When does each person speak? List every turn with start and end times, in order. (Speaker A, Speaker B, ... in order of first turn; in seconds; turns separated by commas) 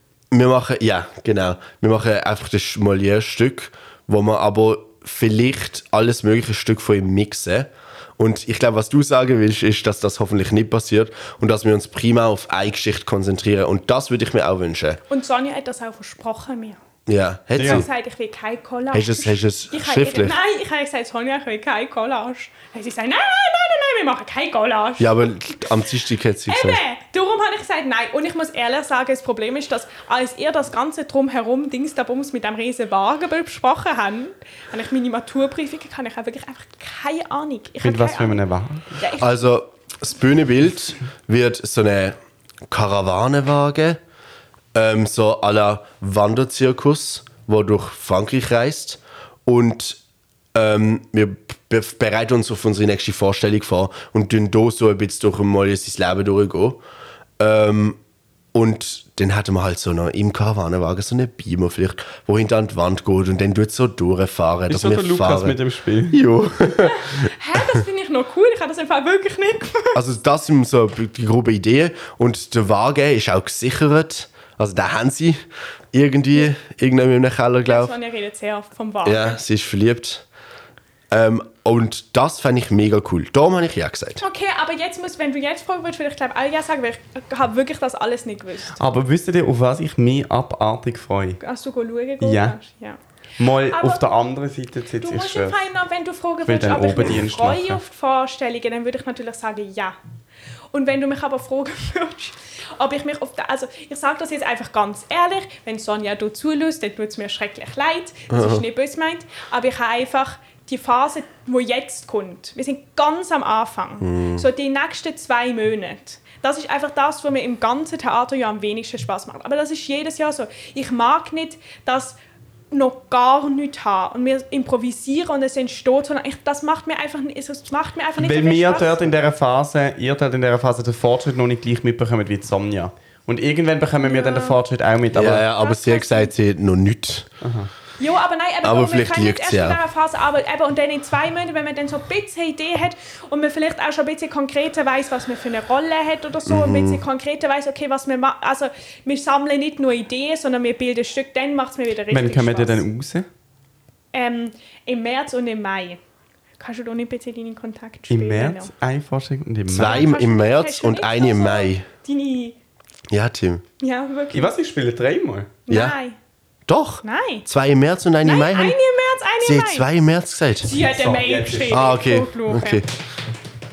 Speaker A: 0.3-15.0, Speaker B: 15.1-16.8, Speaker A: 17.1-17.9, Speaker C: 17.6-17.9, Speaker B: 17.6-25.7, Speaker A: 18.9-20.4, Speaker A: 25.0-26.8, Speaker B: 26.5-38.4, Speaker C: 37.8-39.0, Speaker B: 38.9-39.5, Speaker A: 39.2-42.2, Speaker A: 42.7-44.0, Speaker A: 44.7-50.0, Speaker A: 50.5-56.8, Speaker A: 57.4-58.0, Speaker A: 58.5-65.6, Speaker C: 64.7-66.2, Speaker A: 66.1-67.2, Speaker B: 66.8-70.0, Speaker A: 69.9-77.9, Speaker B: 77.7-79.4, Speaker A: 79.0-80.3, Speaker A: 81.1-84.2, Speaker B: 84.2-88.8, Speaker C: 88.8-91.4, Speaker B: 91.4-93.0, Speaker C: 92.2-92.6, Speaker C: 93.4-95.6, Speaker B: 93.7-94.0, Speaker B: 95.0-100.0, Speaker C: 96.5-97.8, Speaker B: 100.7-122.2, Speaker A: 108.3-108.6, Speaker A: 114.0-114.5, Speaker B: 122.7-129.0, Speaker C: 128.2-135.5, Speaker B: 134.0-134.6, Speaker A: 135.2-137.3, Speaker B: 135.4-136.3, Speaker C: 137.4-137.7, Speaker B: 138.0-152.8, Speaker A: 138.6-139.8, Speaker A: 146.5-147.0, Speaker C: 152.1-153.3, Speaker B: 154.1-156.0, Speaker B: 156.6-158.7, Speaker C: 158.1-160.1, Speaker A: 159.7-161.8, Speaker B: 159.8-162.6, Speaker A: 163.1-163.6, Speaker B: 163.8-164.5, Speaker C: 164.3-165.6, Speaker B: 165.7-166.2, Speaker A: 165.7-166.0, Speaker A: 166.7-168.8, Speaker B: 167.0-167.5, Speaker B: 168.2-169.9, Speaker A: 169.4-170.7, Speaker B: 170.6-172.8, Speaker C: 170.8-171.9, Speaker A: 171.7-172.9